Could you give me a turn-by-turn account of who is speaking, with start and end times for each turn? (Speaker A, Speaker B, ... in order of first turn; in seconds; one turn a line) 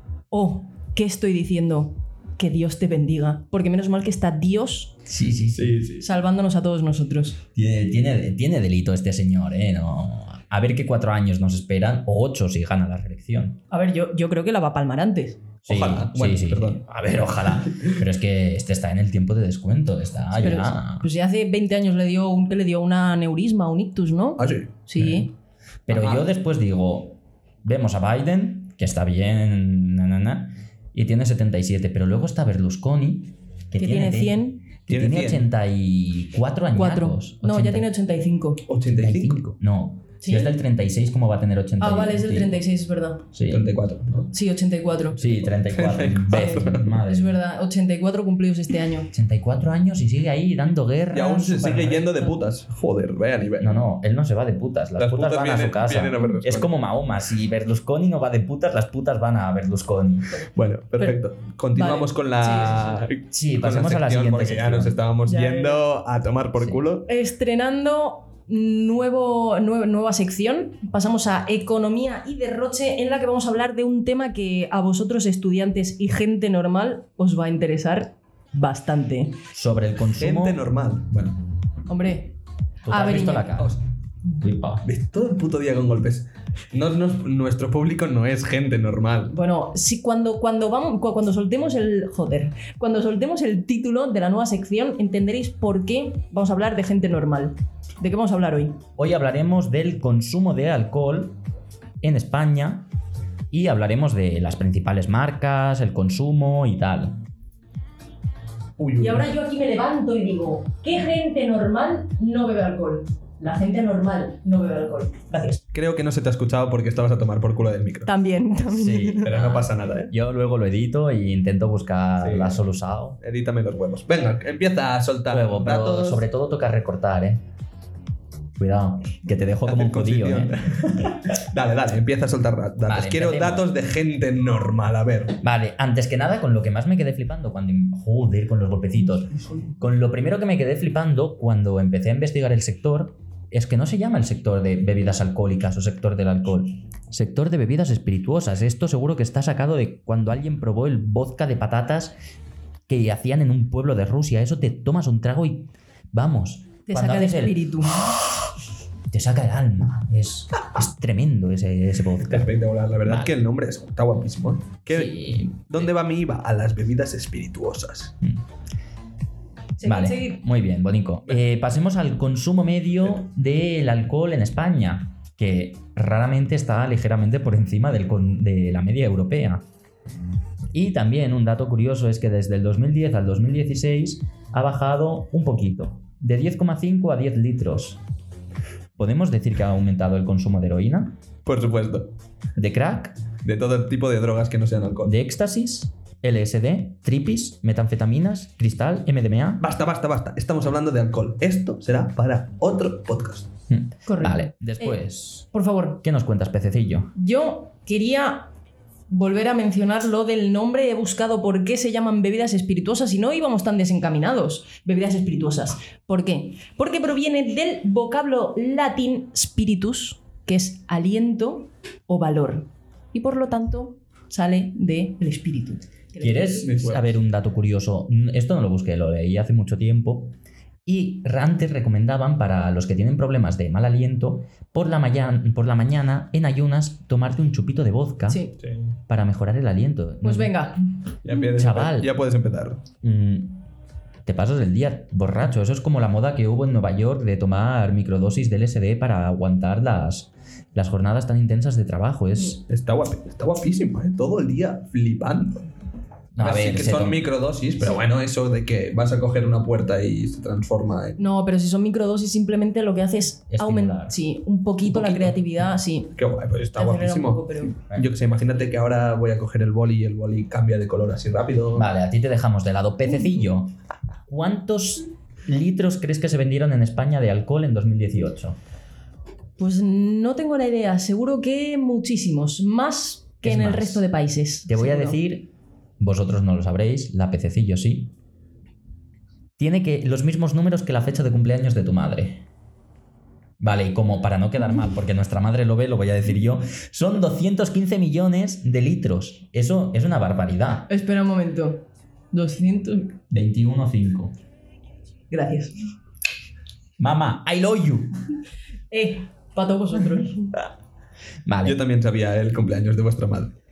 Speaker A: 0.3-5.0
Speaker B: 5.1-5.8
Speaker C: 5.5-6.1
Speaker A: 6.0-7.4
Speaker B: 7.5-13.6
Speaker A: 13.7-15.4
Speaker C: 15.7-16.8
Speaker B: 15.7-21.1
Speaker A: 20.4-25.3
Speaker C: 24.4-24.7
Speaker B: 25.0-25.3
Speaker B: 25.9-37.9
Speaker C: 25.9-26.2
Speaker A: 33.8-34.6
Speaker C: 34.9-35.5
Speaker A: 36.7-38.6
Speaker C: 38.7-39.4
Speaker B: 38.9-42.6
Speaker A: 40.2-40.5
Speaker A: 41.8-43.2
Speaker B: 43.3-43.6
Speaker C: 43.5-44.3
Speaker A: 44.3-45.5
Speaker B: 45.1-47.4
Speaker C: 45.7-47.0
Speaker A: 46.3-49.1
Speaker B: 49.1-52.1
Speaker C: 51.1-53.9
Speaker B: 53.6-60.4
Speaker C: 55.0-56.7
Speaker C: 60.5-67.1
Speaker A: 61.8-63.0
Speaker B: 63.3-65.0
Speaker A: 65.3-65.8
Speaker A: 67.1-79.4
Speaker B: 79.5-80.6
Speaker C: 80.2-81.4
Speaker A: 81.9-82.4
Speaker B: 82.8-83.8
Speaker A: 82.9-83.6
Speaker B: 84.3-84.8
Speaker C: 84.8-89.3
Speaker A: 89.3-98.8
Speaker B: 99.0-101.4
Speaker B: 102.0-102.9
Speaker B: 103.5-107.2
Speaker C: 108.8-109.3
Speaker A: 109.0-115.6
Speaker C: 115.7-118.1
Speaker A: 118.1-119.3
Speaker B: 118.7-123.2
Speaker C: 119.2-120.1
Speaker C: 122.2-122.6
Speaker C: 123.2-126.2
Speaker B: 125.3-127.4
Speaker B: 128.6-130.6
Speaker C: 129.7-135.4
Speaker B: 132.8-133.7
Speaker B: 135.4-152.2
Speaker B: 152.9-158.3
Speaker A: 156.9-158.1
Speaker B: 159.1-163.3
Speaker C: 162.2-168.2
Speaker B: 164.9-165.9
Speaker A: 169.8-170.4
Speaker B: 169.8-179.6
Speaker B: 180.7-188.0
Speaker B: 189.0-191.2
Speaker C: 191.4-192.1
Speaker B: 192.6-193.2
Speaker C: 193.4-195.2
Speaker B: 195.1-199.6
Speaker C: 199.6-203.5
Speaker B: 203.7-205.5
Speaker A: 204.1-206.0
Speaker B: 206.0-207.1
Speaker A: 207.2-208.5
Speaker A: 209.1-226.7
Speaker B: 226.2-230.3
Speaker C: 226.6-227.2
Speaker B: 230.9-238.5
Speaker A: 238.3-238.5
Speaker C: 238.6-239.0
Speaker B: 239.1-240.6
Speaker A: 240.2-240.8
Speaker C: 241.2-242.8
Speaker B: 241.5-242.1
Speaker B: 243.0-243.6
Speaker B: 244.2-252.6
Speaker C: 252.7-255.7
Speaker B: 256.4-257.2
Speaker C: 256.4-261.2
Speaker A: 261.2-266.1
Speaker B: 263.5-264.2
Speaker C: 264.9-265.3
Speaker C: 266.2-271.9
Speaker A: 266.8-267.7
Speaker B: 271.7-273.7
Speaker B: 274.3-278.6
Speaker A: 279.6-285.2
Speaker B: 283.4-284.1
Speaker B: 284.7-288.1
Speaker B: 289.6-292.4
Speaker B: 293.6-300.9
Speaker A: 300.9-303.2
Speaker B: 303.3-304.4
Speaker A: 305.3-305.8
Speaker B: 307.0-308.1
Speaker A: 308.9-310.5
Speaker B: 311.5-311.8
Speaker C: 311.6-313.5